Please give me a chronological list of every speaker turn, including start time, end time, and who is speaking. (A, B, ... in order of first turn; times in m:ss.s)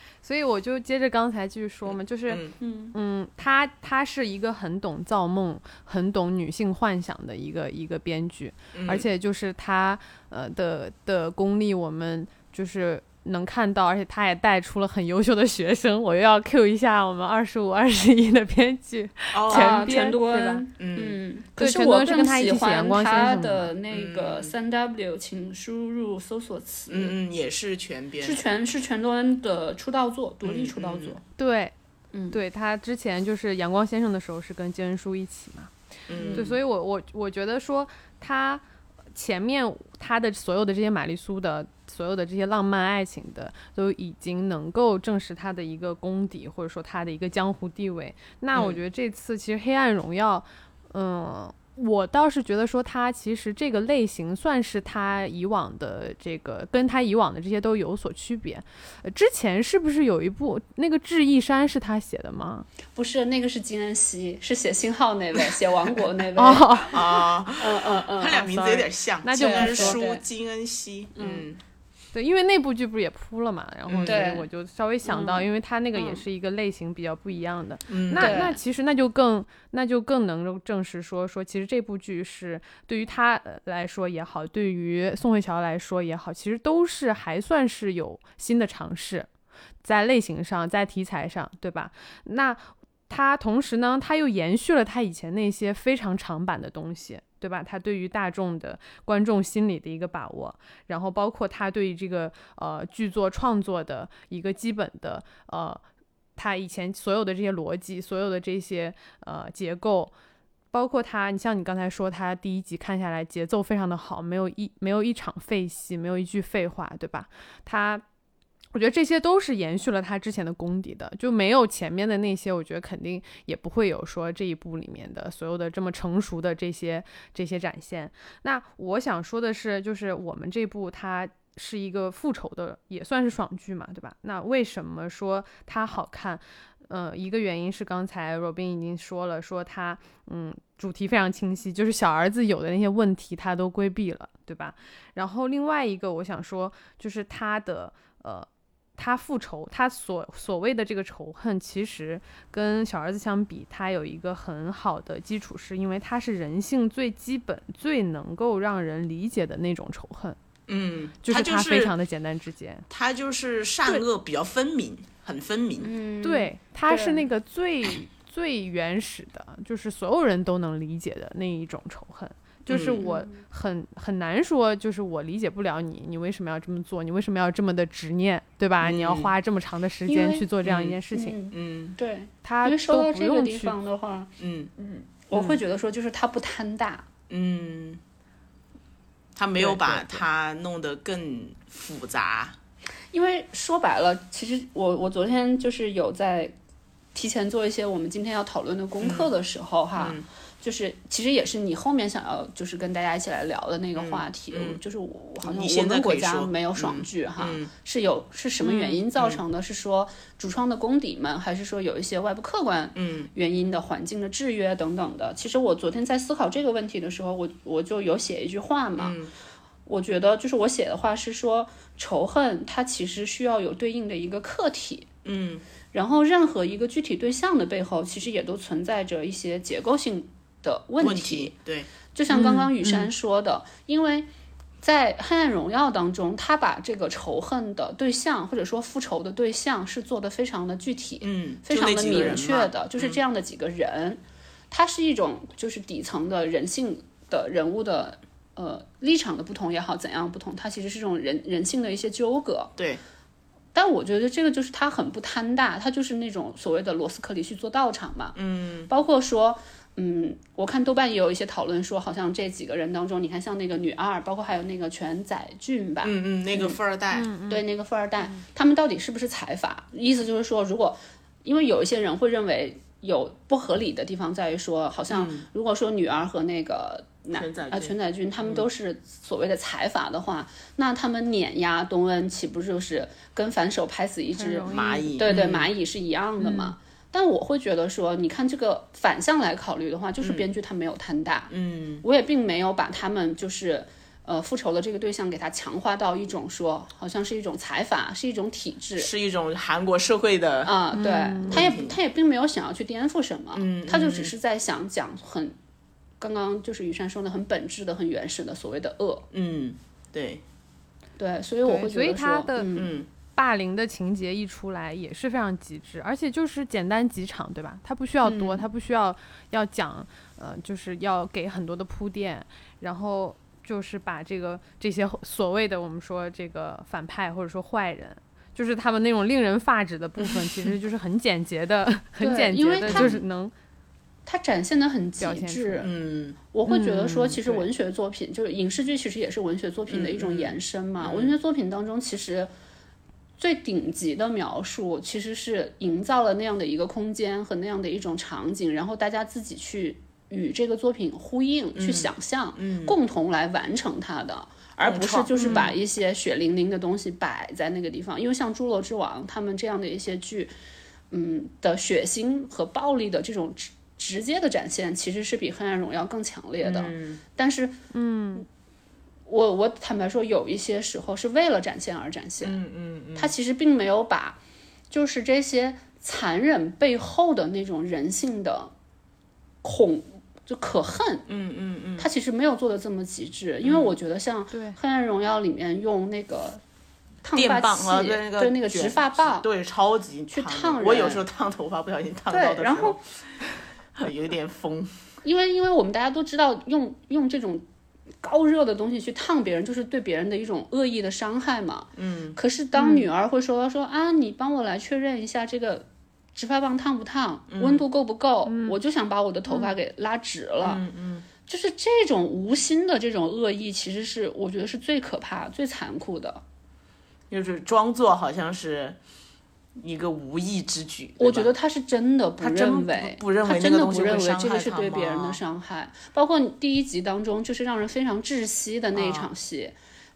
0:00.2-0:20.6 A
0:01.9-0:02.5 B
0:02.6-0:02.9 C
0:08.7-0:09.1 B
0:19.3-0:19.9 B
0:19.5-0:27.2 C
0:20.8-0:21.2 B
0:21.6-0:23.7 A
0:23.9-0:24.5 B
0:26.9-0:28.4 B
0:28.2-0:31.2 C
0:30.4-0:31.2 B
0:31.4-0:31.7 A
0:32.1-0:32.4 C
0:32.3-0:35.7 A
0:36.1-0:36.5 B
0:36.1-0:36.6 C
0:36.3-1:02.7 A
0:48.5-0:48.8 B
1:03.0-1:08.5 C
1:06.4-1:07.0 A
1:06.9-1:11.6 B
1:08.4-1:10.0 A
1:09.4-1:10.2 C
1:11.2-1:11.5 C
1:12.1-1:29.3 A
1:13.9-1:14.2 B
1:14.1-1:14.5 C
1:15.0-1:16.2 C
1:17.9-1:18.5 B
1:18.2-1:18.6 C
1:29.8-1:45.8 A
1:46.4-1:50.1 A
1:50.7-1:58.0 A
1:58.7-2:28.5 A
2:29.0-2:40.4 A
2:40.7-2:41.9 B
2:41.2-2:42.9 A
2:42.9-2:45.9 B
2:45.8-2:47.2 C
2:46.2-3:01.4 A
2:52.7-2:53.0 B
2:53.0-2:53.4 C
2:58.8-2:59.4 B
3:00.1-3:00.5 C
3:00.6-3:01.0 B
3:01.1-3:07.1 C
3:01.5-3:02.0 B
3:02.4-3:03.7 A
3:04.4-3:04.7 B
3:07.3-3:08.0 B
3:09.4-3:12.6 B
3:09.6-3:10.2 A
3:13.1-3:16.6 C
3:17.2-3:39.2 C
3:19.0-3:19.3 B
3:20.0-3:20.2 B
3:24.0-3:24.8 B
3:25.4-3:27.7 B
3:29.2-3:29.4 B
3:33.0-3:33.3 B
3:39.0-3:39.3 B
3:39.9-3:45.1 C
3:45.2-3:45.6 B
3:45.9-3:51.6 C
3:51.0-3:51.9 B
3:52.1-3:54.3 C
3:52.3-3:52.7 A
3:54.8-4:12.7 C
4:01.2-4:03.2 B
4:12.8-4:13.0 B
4:13.7-4:18.4 C
4:18.4-4:18.9 B
4:18.9-4:26.8 C
4:26.0-4:27.3 B
4:27.1-4:27.6 A
4:27.5-4:59.1 C
4:35.1-4:35.5 B
4:37.3-4:38.7 B
4:44.4-4:45.2 A
4:44.7-4:45.7 B
4:46.4-4:46.8 A
4:51.5-4:52.0 B
4:59.0-5:00.7 B
5:00.6-5:05.6 C
5:00.9-5:01.8 A
5:01.5-5:02.0 B
5:03.5-5:04.3 B
5:06.2-5:09.2 C
5:09.3-5:10.4 B
5:11.2-5:13.0 C
5:11.6-5:12.7 A
5:12.8-5:13.1 B
5:13.4-5:33.5 A
5:18.2-5:18.6 C
5:30.2-5:30.7 B
5:32.2-5:33.2 C
5:32.9-5:33.2 B
5:34.3-5:35.9 C
5:35.2-5:35.9 A
5:35.8-5:36.4 B
5:36.5-5:42.5 C
5:36.7-5:37.7 A
5:39.9-5:41.3 B
5:43.4-6:00.5 C
5:51.8-5:53.0 B
5:54.8-5:55.8 B
5:55.4-5:55.7 A
6:01.1-6:07.8 C
6:06.6-6:07.2 B
6:07.9-6:08.5 A
6:09.3-6:12.6 C
6:12.4-6:13.3 B
6:13.2-6:14.4 C
6:14.9-6:18.7 C
6:19.6-6:21.3 C
6:21.3-6:22.1 B
6:22.0-6:26.6 C
6:23.6-6:23.9 B
6:24.5-6:24.8 A
6:27.2-6:29.5 C
6:27.3-6:33.4 B
6:30.3-6:31.2 C
6:32.3-6:33.0 C
6:34.0-6:35.0 B
6:35.2-6:37.6 C
6:38.2-6:50.8 C
6:42.0-6:42.4 B
6:42.8-6:43.1 A
6:47.5-6:47.8 B
6:48.5-6:48.8 A
6:49.5-6:49.7 A
6:50.6-6:51.3 B
6:51.5-6:56.4 C
6:57.3-6:59.0 B
6:59.8-7:01.5 B
7:01.2-7:09.8 C
7:02.4-7:05.4 B
7:09.0-7:09.3 B